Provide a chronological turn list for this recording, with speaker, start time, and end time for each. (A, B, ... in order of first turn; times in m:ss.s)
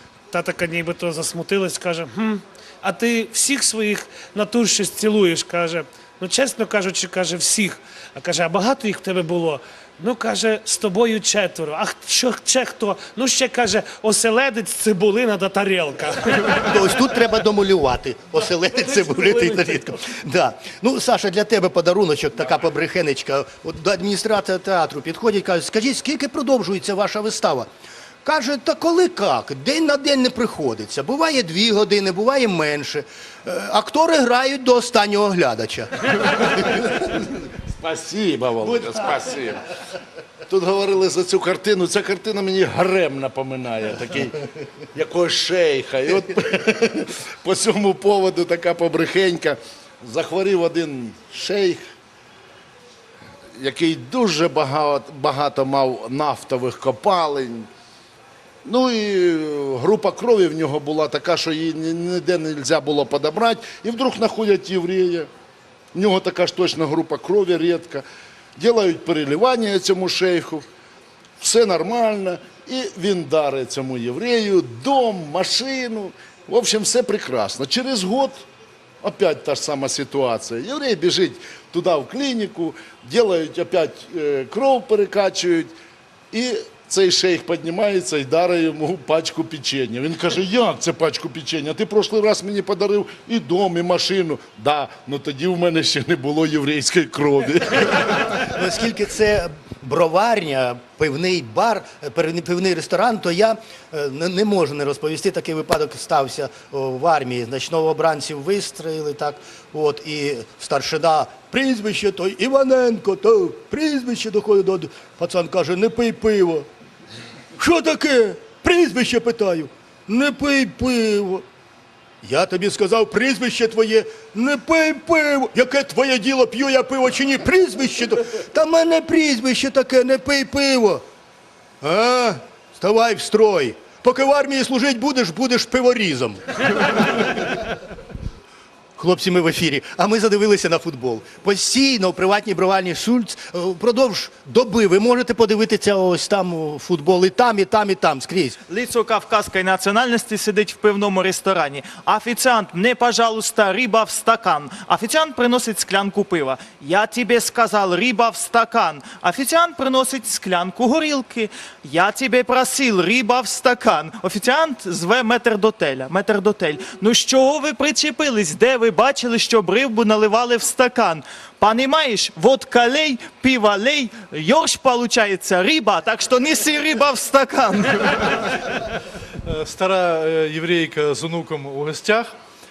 0:00.3-0:16.8 A
0:16.7-0:27.7 B
0:18.7-0:19.8 A
0:28.2-0:35.9 B
0:36.6-0:37.1 C
0:37.7-0:39.7 C
0:40.5-0:51.8 C
0:53.6-0:57.7 C
0:58.6-1:05.3 C
1:05.9-1:08.0 C
1:08.6-1:10.6 C
1:11.4-1:18.4 C
1:19.0-1:25.7 C
1:26.3-1:38.4 C
1:38.4-1:56.7 B
1:57.6-2:01.4 B
2:02.2-2:11.0 B
2:11.8-2:17.6 B
2:19.0-2:28.6 B
2:28.7-2:58.3 D
2:59.4-3:02.3 E